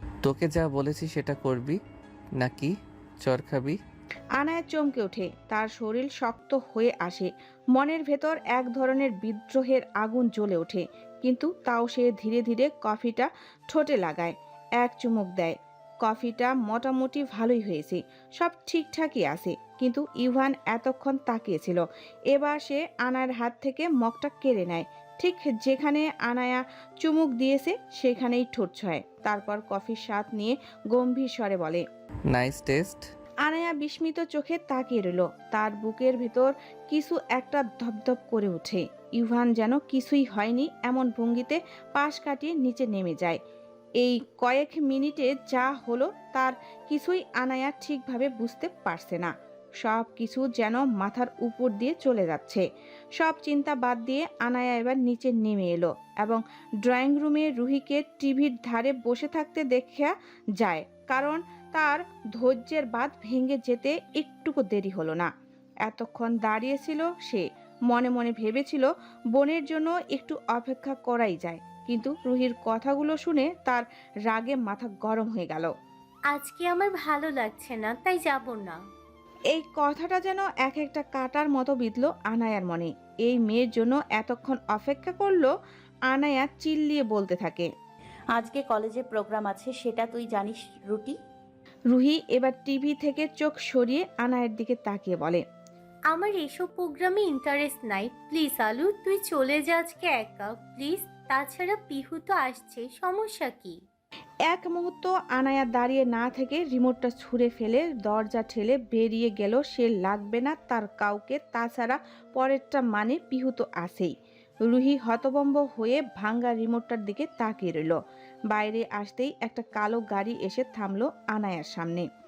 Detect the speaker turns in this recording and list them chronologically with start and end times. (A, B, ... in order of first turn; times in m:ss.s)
0:00.2-0:01.8 A
0:02.4-0:03.8 A
0:04.4-0:31.8 B
0:32.3-0:33.1 A
0:33.4-0:43.4 B
0:44.0-0:49.3 B
0:49.8-0:52.6 B
0:53.2-1:05.3 B
1:05.8-1:15.7 B
1:16.3-1:18.8 C
1:19.5-1:25.5 B
1:26.1-1:27.7 B
1:28.3-1:31.2 D
1:31.9-1:35.4 B
1:36.1-1:43.8 C
1:44.5-1:54.1 B
1:54.7-1:58.0 B
1:58.5-2:02.0 B